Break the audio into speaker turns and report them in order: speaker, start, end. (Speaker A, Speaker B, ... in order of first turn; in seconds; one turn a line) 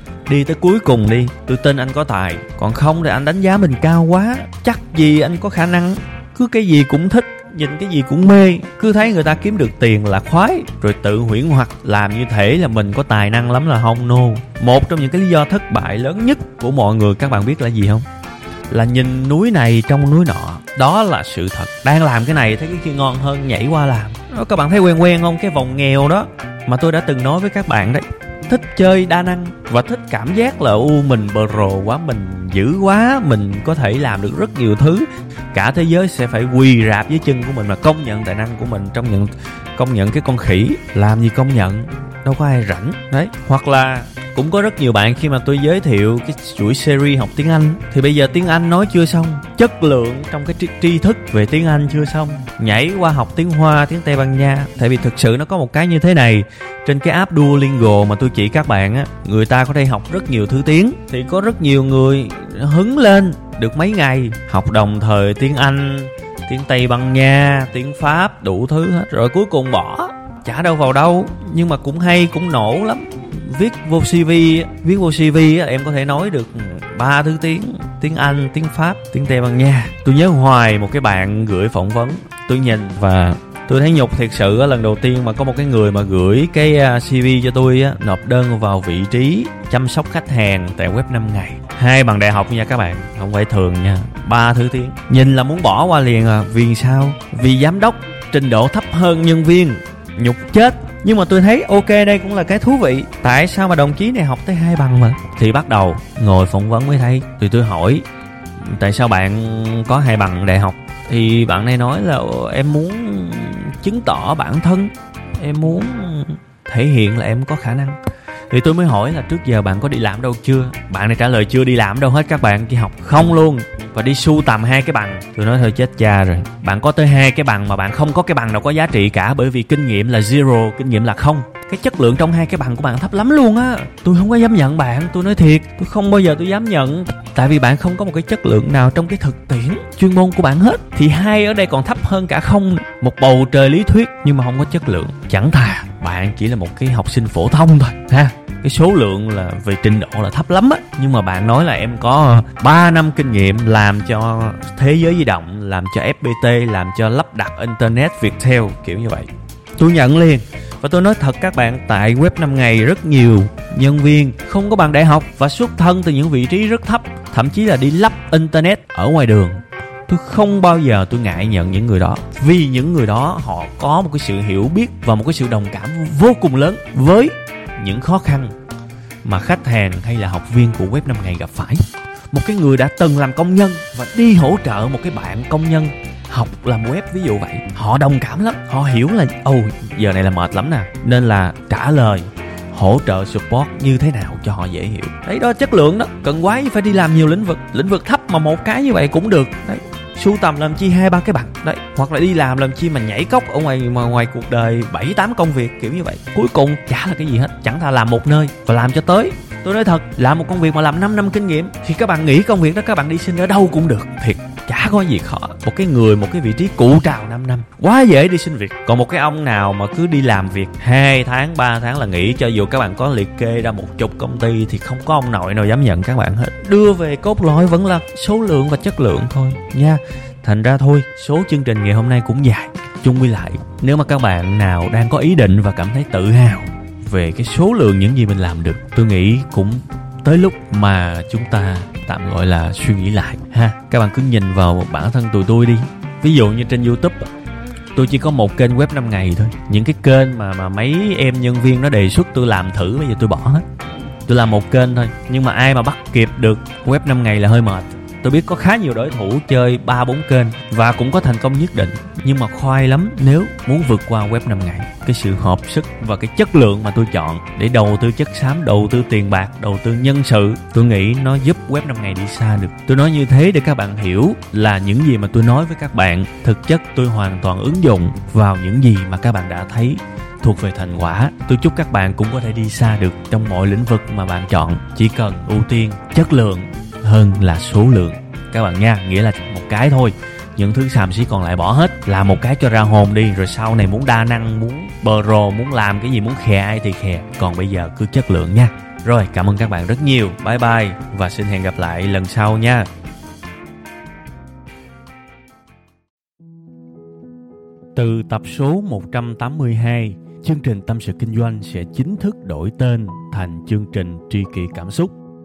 Speaker A: 0.3-18.0
Speaker A: 18.7-108.0
Speaker A: 108.6-118.0
Speaker A: 118.5-178.5
Speaker A: 179.2-247.3
Speaker A: 247.9-253.6
Speaker A: 254.2-302.9
Speaker A: 307.9-315.1